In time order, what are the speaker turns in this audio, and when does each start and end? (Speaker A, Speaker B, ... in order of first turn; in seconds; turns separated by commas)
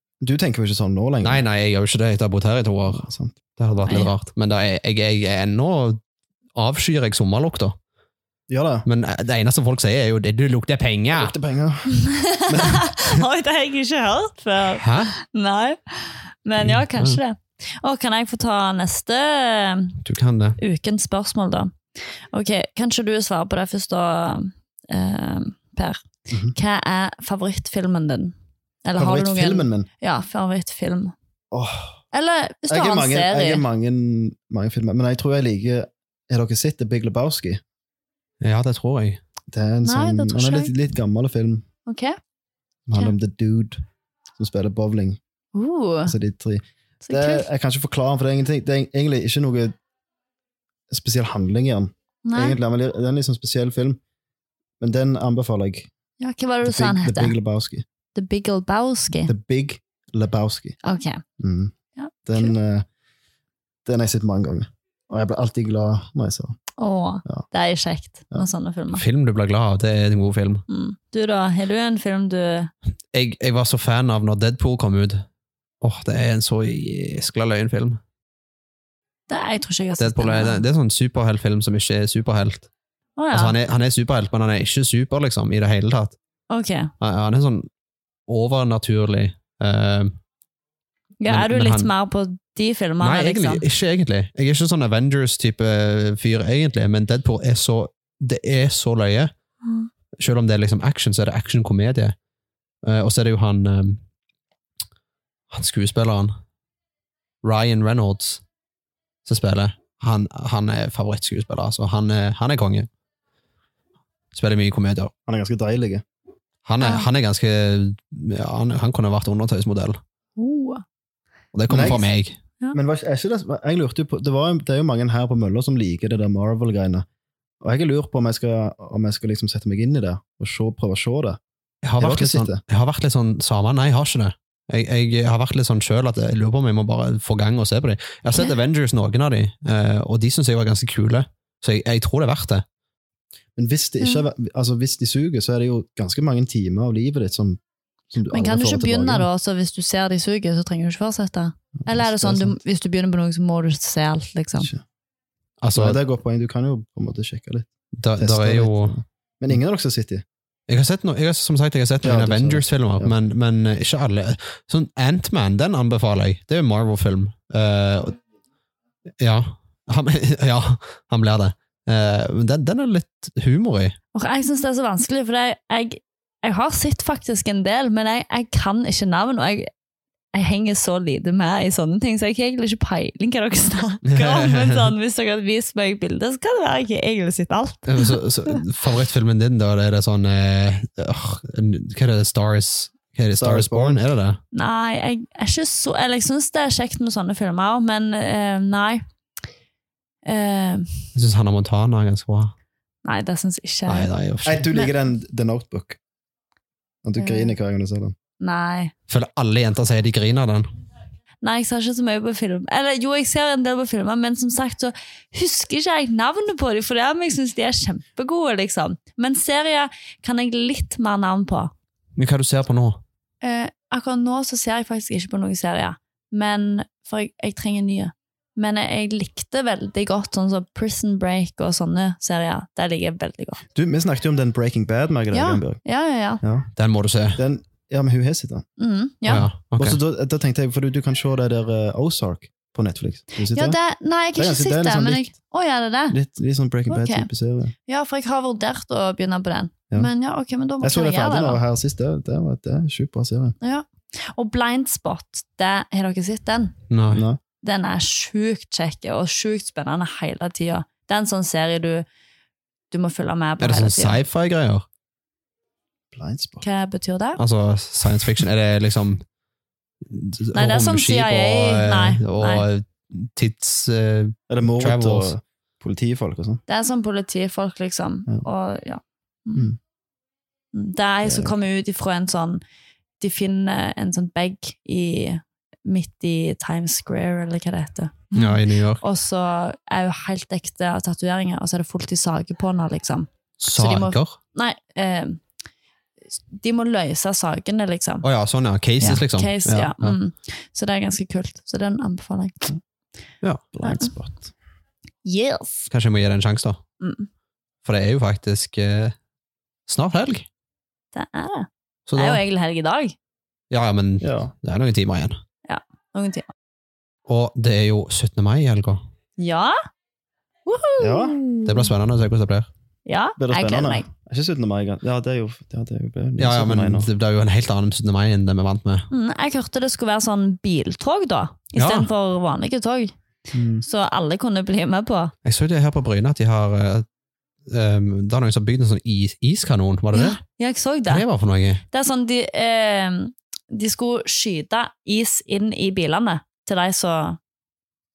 Speaker A: 0.2-1.4, Speaker B: 1.2-6.0, Speaker A: 2.9-3.3, Speaker C: 3.9-4.1, Speaker B: 6.6-7.8, Speaker A: 8.5-8.9, Speaker B: 8.9-11.3, Speaker A: 11.1-11.9, Speaker C: 11.9-20.0, Speaker B: 12.5-12.8, Speaker B: 14.7-15.1, Speaker B: 16.6-17.2, Speaker B: 20.0-20.6, Speaker C: 20.6-21.8, Speaker C: 22.3-31.1, Speaker A: 29.0-29.9, Speaker A: 31.5-32.0, Speaker C: 32.1-33.6, Speaker A: 32.7-37.6, Speaker B: 38.4-39.2, Speaker A: 39.5-41.7, Speaker C: 39.8-40.7, Speaker C: 41.9-42.2, Speaker A: 42.9-43.8, Speaker A: 44.4-45.2, Speaker C: 45.5-46.1, Speaker A: 46.1-49.7, Speaker C: 47.0-47.5, Speaker A: 50.9-54.0, Speaker C: 52.2-52.6, Speaker A: 54.8-55.9, Speaker C: 56.2-57.4, Speaker A: 56.6-57.9, Speaker C: 58.1-59.3, Speaker A: 59.3-60.8, Speaker C: 60.8-61.2, Speaker A: 61.4-61.7, Speaker C: 62.0-62.5, Speaker A: 62.3-62.9, Speaker A: 63.9-66.6, Speaker C: 66.8-69.0, Speaker B: 68.9-70.6, Speaker C: 70.7-72.7, Speaker B: 73.1-75.2, Speaker B: 75.8-78.0, Speaker C: 79.3-80.6, Speaker B: 80.0-82.7, Speaker C: 83.2-83.6, Speaker B: 83.3-86.2, Speaker C: 86.5-86.9, Speaker B: 87.0-87.7, Speaker B: 88.3-90.2, Speaker C: 91.2-93.6, Speaker B: 91.3-91.9, Speaker B: 93.0-99.3, Speaker B: 100.2-102.2, Speaker B: 102.8-104.0, Speaker B: 105.5-106.3, Speaker B: 107.4-108.4, Speaker B: 109.3-112.9, Speaker B: 114.3-115.1, Speaker A: 115.3-116.0, Speaker B: 116.7-120.0, Speaker C: 116.8-117.1, Speaker C: 120.4-120.8, Speaker B: 121.5-122.4, Speaker A: 121.7-122.1, Speaker A: 122.7-127.1, Speaker A: 127.6-131.4, Speaker B: 131.8-142.6, Speaker A: 132.0-132.6, Speaker A: 143.6-147.6, Speaker A: 148.1-149.3, Speaker C: 148.3-154.7, Speaker A: 151.8-152.6, Speaker B: 155.6-156.0, Speaker A: 155.7-160.2, Speaker B: 157.9-159.0, Speaker B: 160.7-168.2, Speaker A: 162.0-163.1, Speaker B: 169.2-174.0, Speaker C: 174.1-179.7, Speaker C: 180.3-188.6, Speaker B: 184.1-184.9, Speaker B: 187.9-194.4, Speaker A: 193.4-194.0, Speaker C: 194.5-199.0, Speaker C: 200.2-201.1, Speaker B: 201.2-202.5, Speaker C: 203.1-204.1, Speaker B: 203.9-204.7, Speaker A: 204.4-206.0, Speaker A: 207.0-208.2, Speaker C: 207.2-207.6, Speaker C: 208.4-208.9, Speaker B: 209.1-210.7, Speaker C: 211.4-221.7, Speaker B: 222.2-223.0, Speaker C: 223.4-233.6, Speaker A: 233.8-235.8, Speaker C: 235.3-236.4, Speaker A: 236.4-236.7, Speaker B: 236.8-237.4, Speaker A: 237.3-238.7, Speaker C: 238.8-239.5, Speaker B: 239.3-240.0, Speaker A: 239.8-243.8, Speaker C: 243.5-246.2, Speaker A: 244.4-245.3, Speaker A: 246.1-247.7, Speaker C: 246.9-247.3, Speaker C: 247.9-251.6, Speaker A: 250.8-253.6, Speaker C: 253.6-256.8, Speaker B: 256.9-257.2, Speaker A: 257.1-257.4, Speaker C: 257.6-262.1, Speaker C: 262.9-264.2, Speaker B: 263.6-264.9, Speaker A: 266.1-266.6, Speaker C: 266.6-267.4, Speaker B: 267.4-269.2, Speaker B: 270.1-275.3, Speaker C: 270.5-272.7, Speaker A: 274.5-276.6, Speaker C: 276.7-279.7, Speaker C: 280.7-282.6, Speaker A: 281.2-281.6, Speaker C: 283.2-295.4, Speaker B: 288.4-289.0, Speaker B: 293.6-294.4, Speaker C: 296.4-298.2, Speaker B: 298.2-300.2, Speaker C: 299.0-302.7, Speaker A: 303.7-304.5, Speaker C: 303.8-304.1, Speaker C: 305.2-305.9, Speaker B: 305.9-306.8, Speaker C: 307.0-307.3, Speaker B: 307.9-309.1, Speaker B: 309.9-310.5, Speaker C: 311.1-313.2, Speaker B: 312.1-312.4, Speaker B: 313.7-315.4, Speaker A: 314.2-314.5, Speaker C: 315.7-316.5, Speaker B: 317.3-319.0, Speaker C: 319.4-319.8, Speaker C: 320.7-321.9, Speaker A: 321.0-321.4, Speaker B: 321.6-322.7, Speaker C: 323.1-324.1, Speaker A: 323.4-327.1, Speaker B: 326.4-329.1, Speaker C: 329.1-333.1, Speaker B: 331.8-332.1, Speaker A: 333.5-333.8, Speaker C: 333.8-335.3, Speaker B: 335.4-337.1, Speaker B: 337.7-340.4, Speaker C: 340.1-341.2, Speaker B: 341.1-341.8, Speaker C: 341.9-347.4